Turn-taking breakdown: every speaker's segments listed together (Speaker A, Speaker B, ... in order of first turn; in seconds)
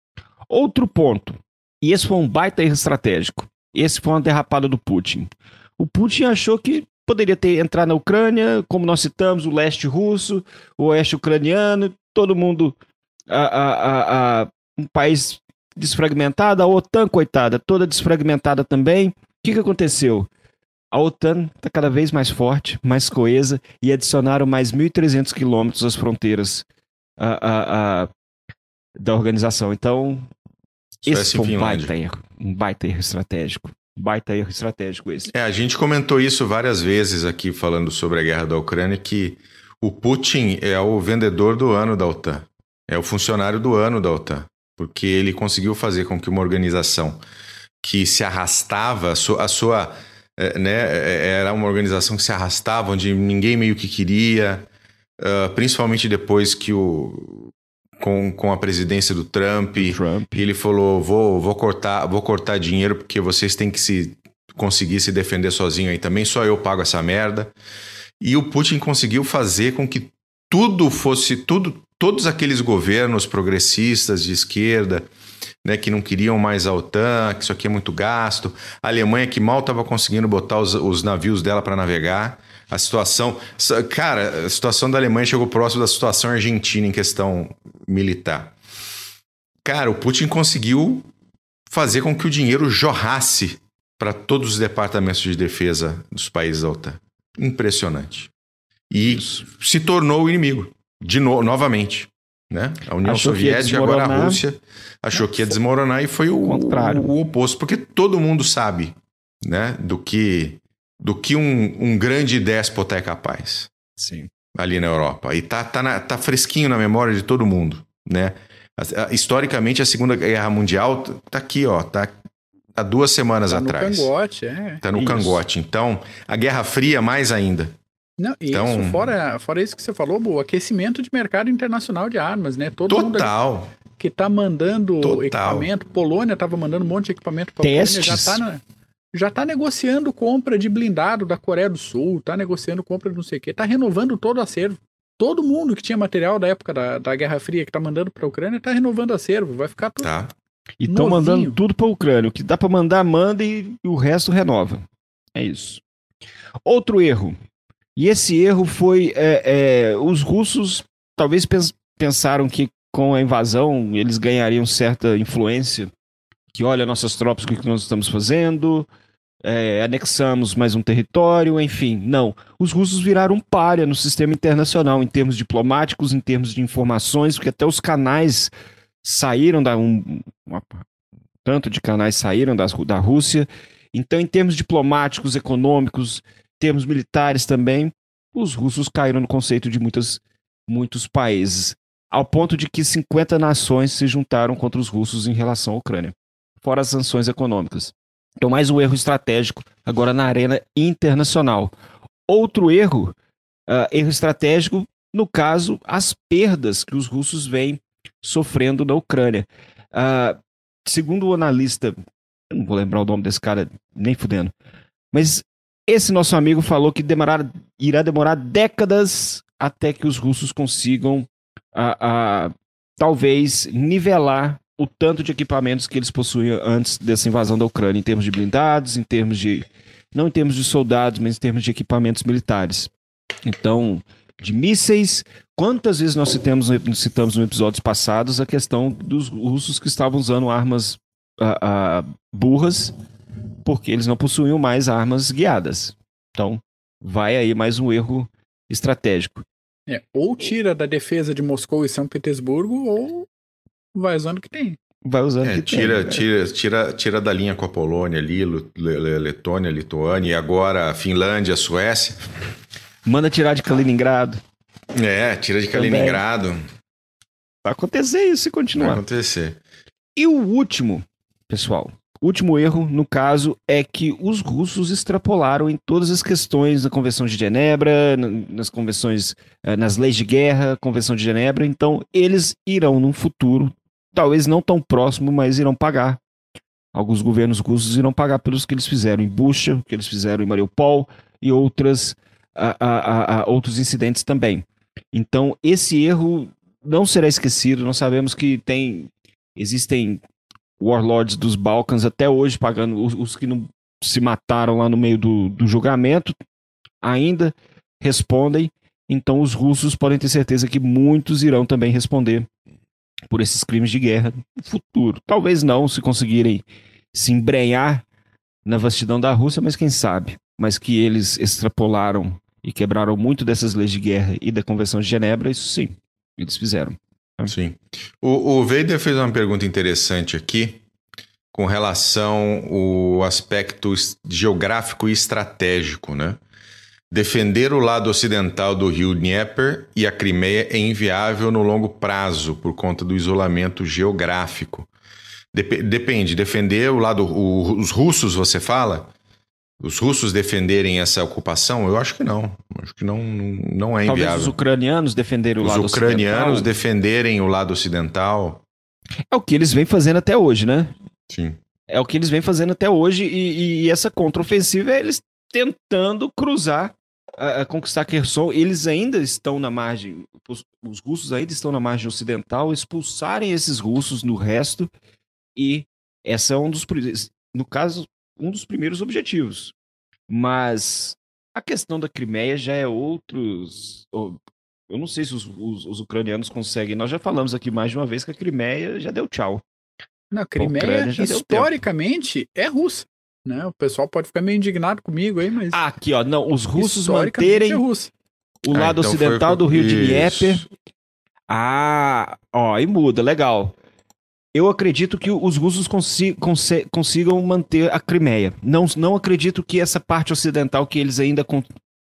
Speaker A: 0.5-12.8, 13.3-20.3, 20.9-26.6, 27.2-28.1, 29.0-30.3, 31.1-35.3, 59.8-60.4, 99.1-99.4, 103.0-104.4, 105.1-105.6, 106.3-107.1, 114.0-114.3, 137.6-138.4, 150.8-155.8, 156.6-157.3, 157.9-165.9, 166.5-168.9, 169.4-178.5, 179.0-180.8, 181.4-201.7, 202.3-203.1, 203.7-211.9, 212.5-214.5, 215.1-232.9, 233.4-242.9, 243.6-249.4, 255.0-256.2, 263.1-264.4, 265.7-266.2, 267.6-269.0, 270.1-286.2, 286.9-300.2, 300.8-306.3, 307.0-312.5, 313.3-318.0, 318.6-327.5, 354.0-356.7, 359.3-360.9, 361.9-374.9, 375.5-379.7, 380.3-384.4, 384.9-389.6, 390.6-391.7, 395.7-397.8, 398.6-400.6, 401.5-403.7, 404.5-411.7
Speaker B: 31.0-31.9, 35.3-47.2, 47.8-54.7, 55.2-67.5, 68.2-75.1, 75.6-88.5, 89.6-91.1, 91.7-98.3, 98.9-113.7, 114.5-122.2, 122.8-124.1, 124.8-127.7, 128.5-129.1, 132.9-133.7, 135.0-135.7, 150.0-150.3, 255.4-262.2, 264.9-266.6, 268.7-269.6, 327.5-330.8, 331.5-336.4, 337.1-344.9, 345.5-349.1, 349.8-354.5, 355.6-358.6, 361.3-361.6, 398.7-400.6
Speaker C: 123.5-125.3, 128.2-133.3, 134.0-138.6, 139.1-150.1, 150.8-151.6, 249.9-253.3, 253.9-254.8, 390.3-395.9, 396.8-398.1